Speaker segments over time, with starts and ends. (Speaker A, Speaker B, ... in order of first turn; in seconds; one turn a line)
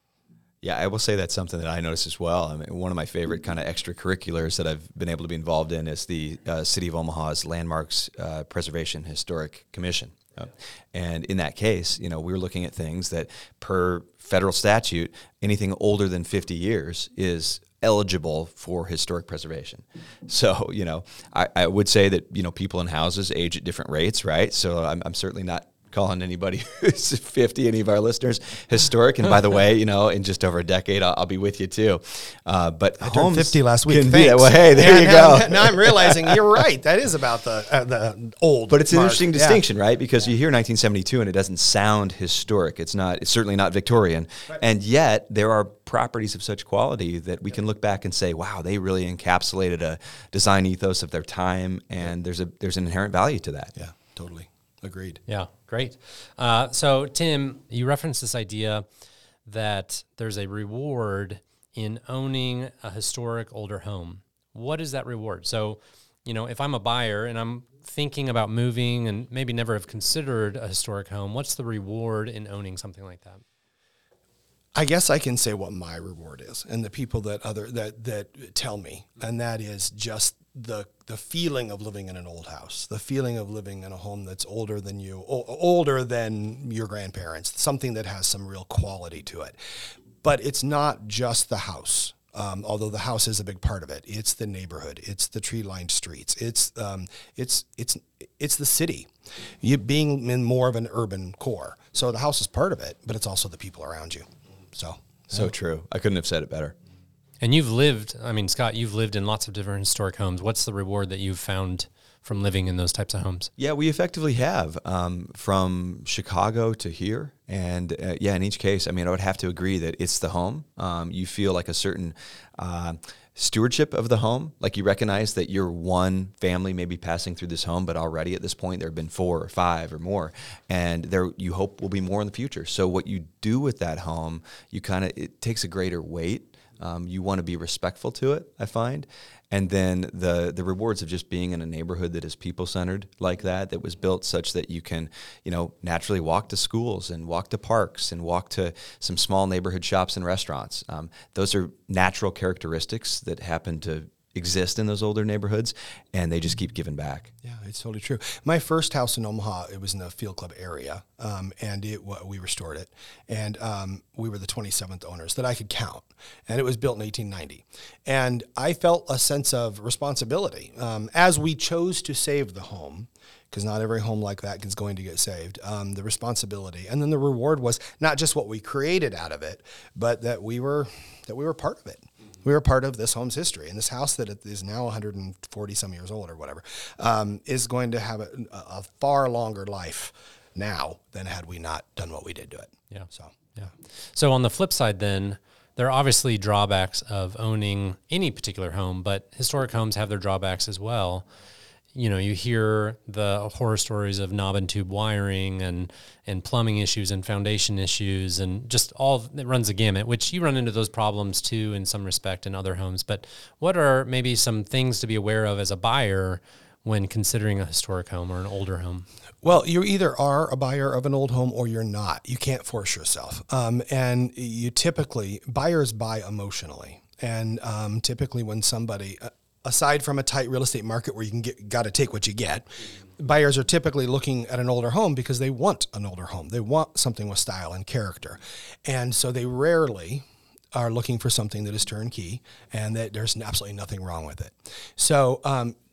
Speaker A: 0.6-36.4
Speaker B: 33.0-39.6
Speaker A: 38.7-53.7
Speaker B: 53.8-55.2
Speaker C: 55.3-58.8
Speaker C: 59.5-73.4
Speaker B: 74.7-89.6
Speaker B: 90.2-105.5
Speaker A: 105.3-106.7
Speaker C: 107.4-113.5
Speaker A: 113.6-157.3
Speaker B: 157.4-193.4
Speaker C: 192.9-201.2
Speaker C: 201.9-219.1
Speaker B: 219.4-245.8